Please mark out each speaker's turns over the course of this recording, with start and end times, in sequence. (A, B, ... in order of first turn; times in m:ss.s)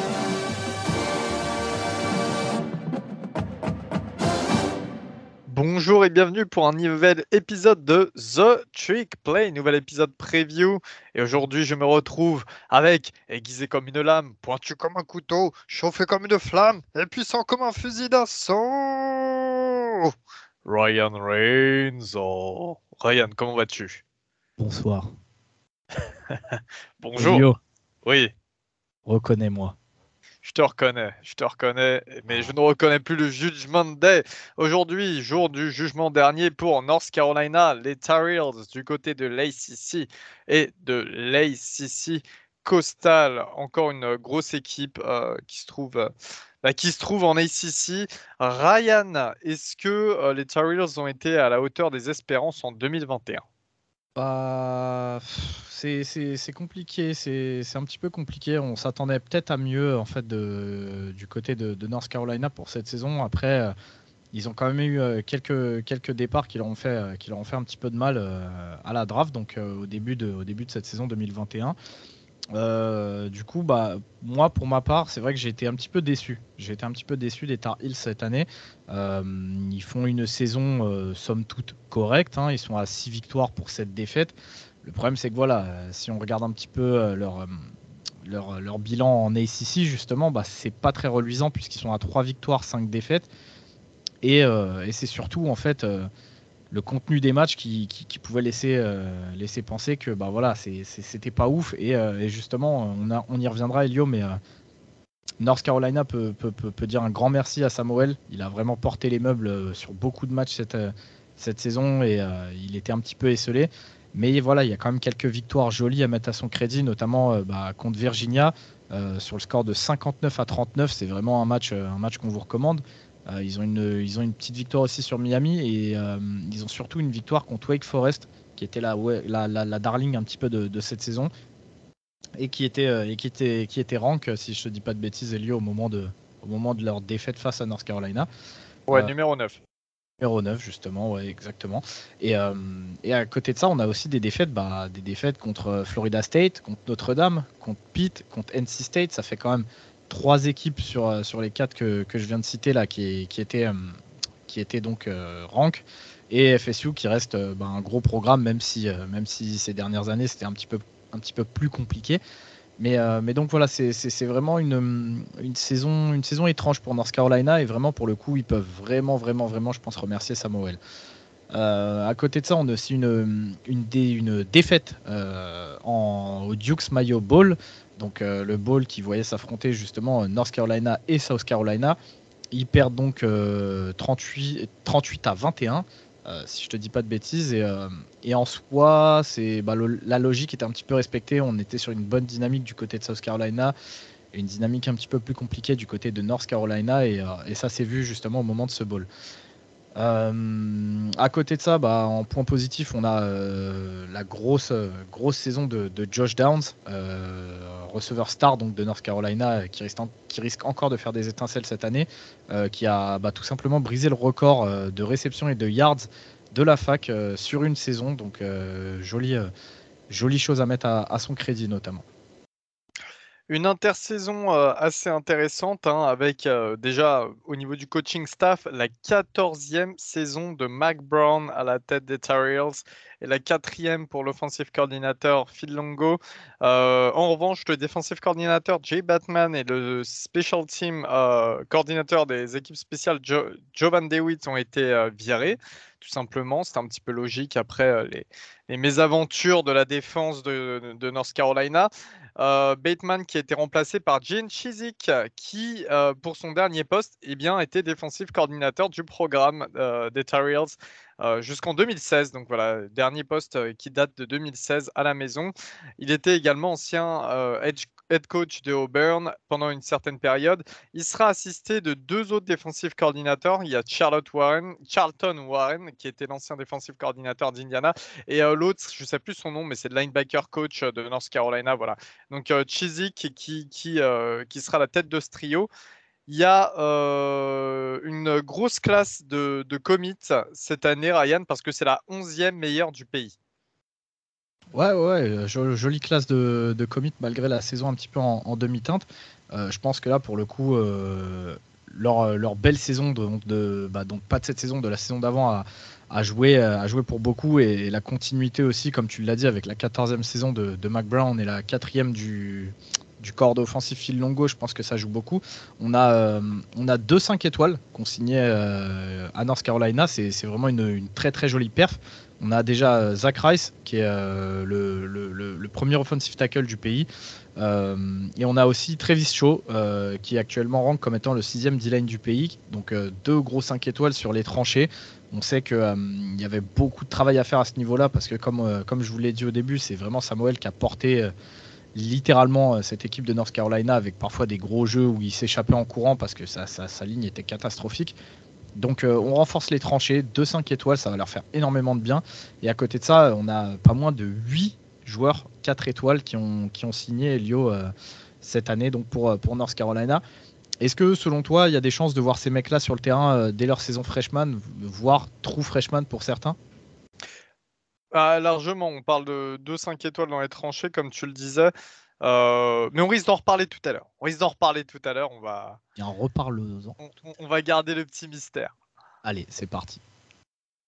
0:05.5-0:20.1 A
0:20.6-0:24.0 A
0:24.6-0:25.1 B
0:26.3-0:27.5 A
0:27.2-0:27.6 B
0:28.0-0:28.3 A
0:29.1-0:29.8 B
0:30.4-0:46.1 A
0:32.3-0:32.6 B
0:46.6-0:53.4 A
0:54.2-1:03.7 B
1:04.3-1:11.8 B
1:12.5-1:27.7 B
1:28.2-1:33.3 B
1:34.2-1:36.1 B
1:36.7-1:44.4 B
1:45.4-2:11.3 B
2:12.4-2:18.3 B
2:18.9-2:19.6 A
2:20.2-2:42.2 B
2:42.8-2:50.8 B
2:51.5-3:02.0 B
3:02.5-3:13.7 B
3:14.3-3:19.1 B
3:20.0-3:39.5 B
3:40.1-3:42.0 B
3:43.5-4:45.7 A
4:46.3-4:53.4 A
4:54.7-5:41.3 B
5:42.0-5:48.2 B
5:48.8-5:57.9 B
5:58.4-6:00.2 B
6:00.8-6:06.6 B
6:08.1-6:15.8 A
6:16.0-6:17.0 B
6:17.0-6:18.7 A
6:19.2-6:20.0 B